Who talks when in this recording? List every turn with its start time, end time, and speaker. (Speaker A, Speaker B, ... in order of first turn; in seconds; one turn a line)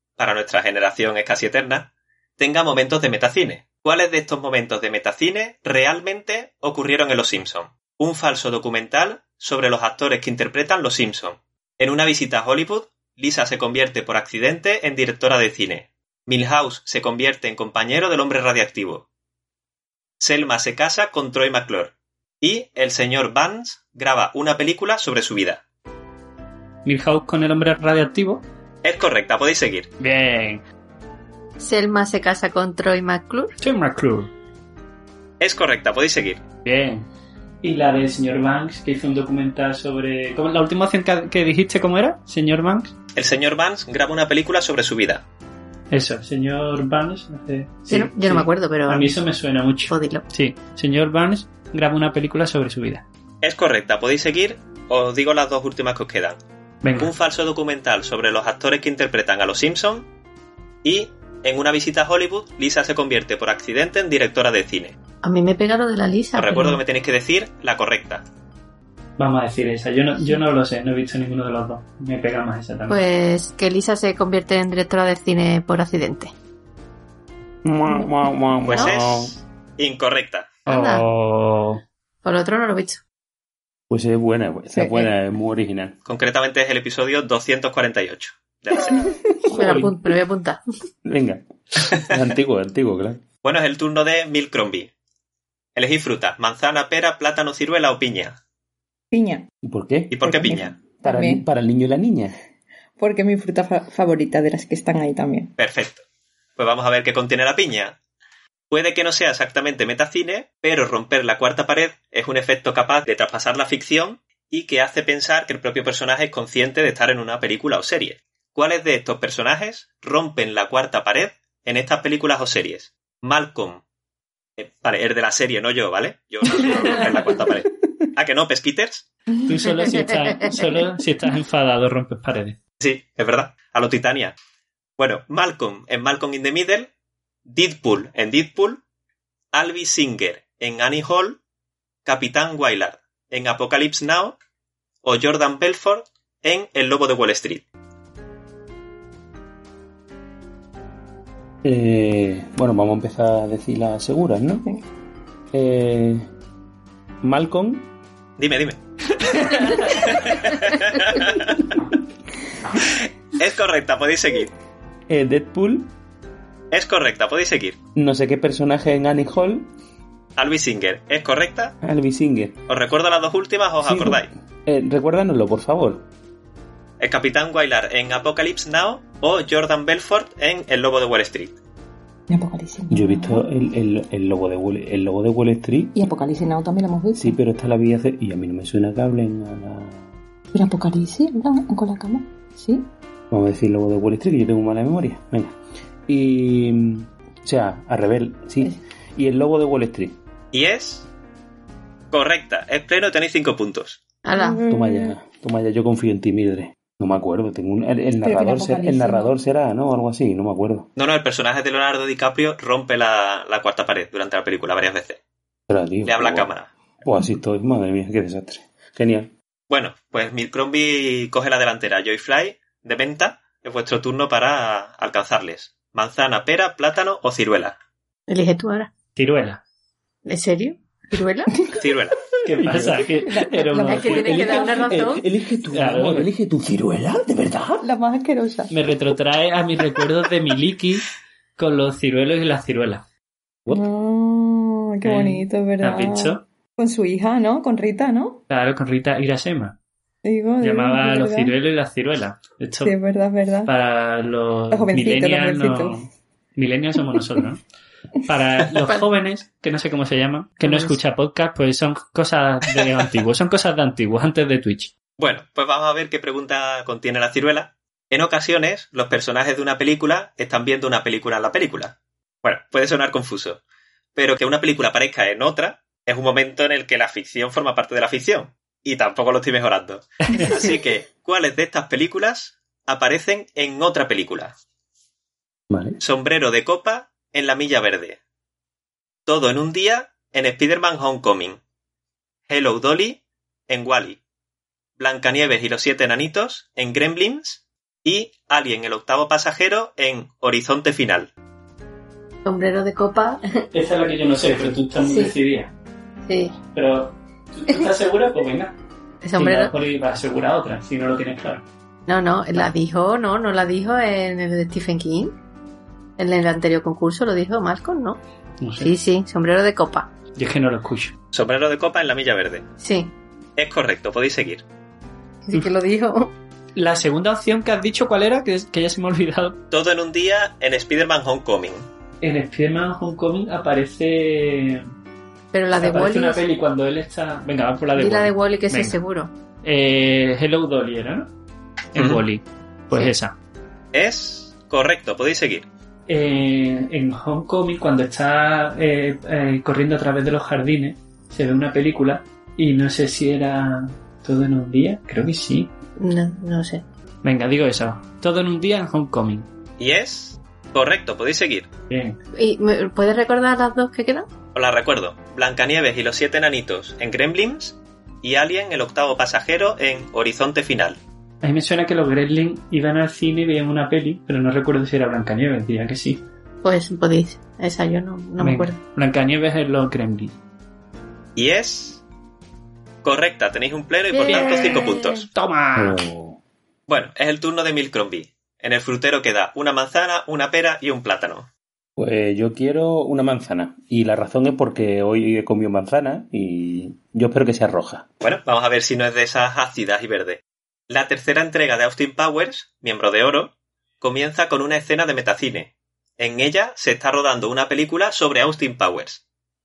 Speaker A: 0.2-19.0
Speaker A: 20.2-25.6
Speaker B: 26.9-28.4
Speaker A: 28.8-29.9
Speaker B: 30.0-30.6
Speaker C: 31.6-33.5
Speaker B: 33.6-34.3
Speaker A: 35.4-36.4
Speaker B: 36.6-37.1
Speaker B: 37.6-42.9
Speaker A: 43.1-45.2
Speaker B: 45.9-53.0
Speaker C: 47.9-49.1
Speaker C: 49.9-50.2
Speaker A: 53.4-56.4
Speaker B: 56.8-57.1
Speaker A: 57.0-60.1
Speaker A: 60.8-64.9
Speaker C: 65.2-66.8
Speaker A: 66.4-68.2
Speaker B: 69.2-73.0
Speaker C: 72.9-76.3
Speaker D: 77.6-79.4
Speaker A: 78.7-80.6
Speaker B: 80.7-81.8
Speaker C: 80.7-81.0
Speaker C: 82.2-83.0
Speaker D: 83.9-86.0
Speaker E: 84.7-85.1
Speaker A: 86.0-89.1
Speaker C: 89.5-90.6
Speaker D: 91.0-93.2
Speaker A: 93.4-94.9
Speaker A: 95.8-98.4
Speaker E: 99.1-99.5
Speaker D: 99.6-100.1
Speaker A: 100.1-100.7
Speaker E: 100.2-101.4
Speaker D: 101.0-102.3
Speaker E: 103.0-105.5
Speaker A: 105.6-106.0
Speaker A: 106.6-107.9
Speaker A: 108.7-123.8
Speaker A: 124.6-129.1
Speaker B: 126.6-127.1
Speaker B: 129.4-132.6
Speaker A: 132.8-134.3
Speaker A: 135.0-136.9
Speaker A: 137.5-138.8
Speaker A: 139.5-141.4
Speaker A: 142.1-144.4
Speaker A: 145.0-147.6
Speaker D: 151.6-154.7
Speaker D: 155.5-156.3
Speaker D: 157.2-157.9
Speaker A: 158.4-158.8
Speaker A: 159.5-161.6
Speaker A: 163.4-164.5
Speaker D: 165.1-165.9
Speaker A: 166.7-167.8
Speaker D: 167.9-169.7
Speaker A: 170.4-171.7
Speaker D: 171.8-172.6
Speaker A: 172.7-174.3
Speaker D: 173.8-176.1
Speaker A: 177.0-181.6
Speaker E: 182.3-183.4
Speaker D: 182.9-185.9
Speaker E: 185.9-187.4
Speaker D: 187.2-190.1
Speaker E: 190.5-192.9
Speaker D: 193.3-195.6
Speaker D: 196.1-200.2
Speaker A: 200.5-201.1
Speaker A: 202.1-204.0
Speaker C: 204.2-204.6
Speaker E: 204.3-205.2
Speaker D: 204.7-210.9
Speaker E: 208.2-209.3
Speaker A: 211.0-215.2
Speaker D: 215.7-216.5
Speaker A: 216.0-216.7
Speaker D: 217.0-219.3
Speaker A: 219.7-227.8
Speaker C: 228.3-228.9
Speaker B: 229.2-229.6
Speaker C: 230.2-231.5
Speaker A: 231.8-232.2
Speaker B: 232.4-234.4
Speaker D: 232.6-233.1
Speaker E: 233.2-234.9
Speaker C: 233.9-235.2
Speaker D: 234.1-237.9
Speaker B: 235.7-236.3
Speaker E: 237.8-238.7
Speaker B: 238.7-241.1
Speaker B: 241.6-243.1
Speaker E: 243.7-248.4
Speaker B: 245.0-246.4
Speaker B: 248.5-249.8
Speaker E: 250.2-251.5
Speaker B: 250.6-252.9
Speaker E: 252.8-253.7
Speaker B: 253.7-257.6
Speaker E: 254.7-256.0
Speaker B: 258.3-264.9
Speaker C: 260.6-261.0
Speaker A: 265.2-273.6
Speaker A: 274.1-284.5
Speaker D: 285.7-286.0
Speaker A: 286.0-288.2
Speaker A: 289.2-291.6
Speaker A: 292.5-294.2
Speaker A: 295.0-301.3
Speaker C: 302.4-303.4
Speaker B: 303.7-305.7
Speaker C: 304.5-305.3
Speaker C: 306.2-306.6
Speaker B: 306.7-308.7
Speaker C: 309.2-309.7
Speaker B: 309.4-311.6
Speaker C: 312.1-315.3
Speaker C: 316.2-318.2
Speaker B: 318.6-318.9
Speaker C: 318.8-320.1
Speaker B: 320.4-321.1
Speaker A: 321.3-322.6
Speaker C: 322.8-323.1
Speaker A: 323.6-324.6
Speaker C: 325.5-326.3
Speaker B: 326.8-329.6
Speaker A: 329.7-331.9
Speaker B: 332.2-334.9
Speaker C: 335.5-336.4
Speaker B: 335.7-339.0
Speaker C: 337.9-339.3
Speaker B: 339.6-341.3
Speaker B: 341.9-343.4
Speaker A: 341.9-342.2
Speaker A: 343.9-345.6
Speaker B: 346.1-355.7
Speaker C: 356.0-356.9
Speaker B: 357.2-359.5
Speaker A: 359.8-361.7
Speaker B: 361.9-362.2
Speaker C: 362.4-364.3
Speaker A: 364.6-371.0
Speaker B: 371.4-376.2
Speaker C: 376.6-378.8
Speaker B: 378.4-380.4
Speaker A: 381.4-382.0
Speaker A: 383.0-385.3
Speaker C: 384.1-385.2
Speaker B: 384.3-384.8
Speaker B: 385.3-386.0
Speaker D: 385.8-386.4
Speaker A: 386.9-391.5
Speaker D: 392.0-398.1
Speaker A: 398.2-409.2